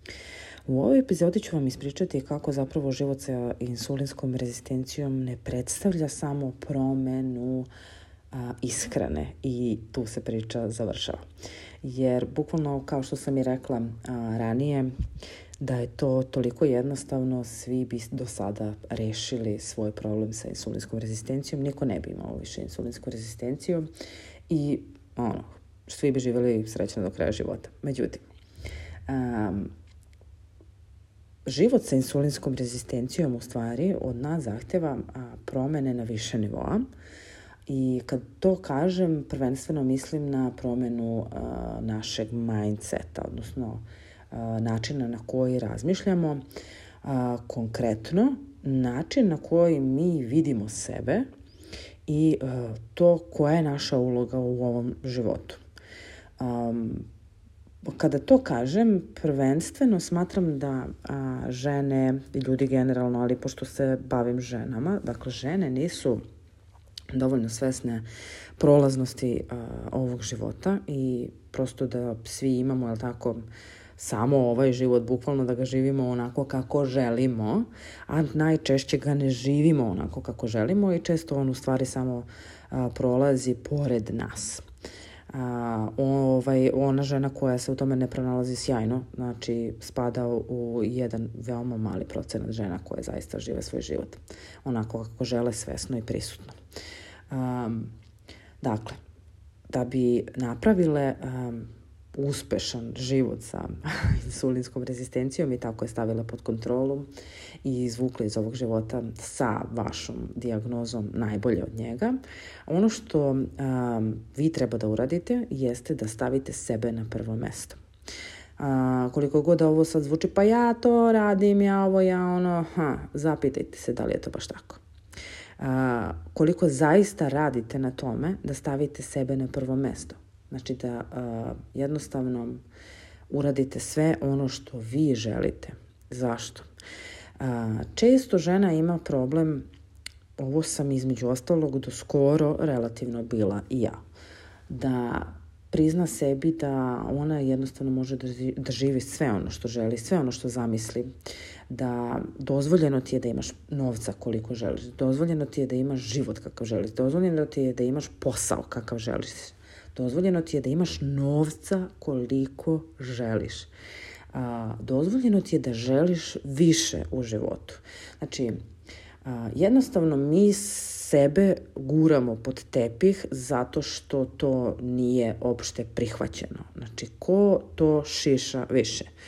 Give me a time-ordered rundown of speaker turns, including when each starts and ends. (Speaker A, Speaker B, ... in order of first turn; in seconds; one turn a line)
Speaker A: 0.7-7.7
Speaker A: 8.3-11.2
Speaker A: 11.8-14.9
Speaker A: 15.6-23.9
Speaker A: 24.5-28.2
Speaker A: 29.1-29.7
Speaker A: 31.4-36.8
Speaker A: 37.7-46.4
Speaker A: 47.0-51.3
Speaker A: 52.1-55.6
Speaker A: 56.4-57.1
Speaker A: 57.8-66.2
Speaker A: 67.1-68.0
Speaker A: 68.6-73.5
Speaker A: 74.0-84.6
Speaker A: 85.3-96.6
Speaker A: 97.3-97.9
Speaker A: 98.6-99.0
Speaker A: 99.7-107.1
Speaker A: 107.6-117.8
Speaker A: 118.6-124.8
Speaker A: 125.6-132.6
Speaker A: 133.3-136.7
Speaker A: 137.4-139.6
Speaker A: 140.4-144.0
Speaker A: 144.7-151.1
Speaker A: 151.7-163.7
Speaker A: 164.3-168.6
Speaker A: 169.2-179.1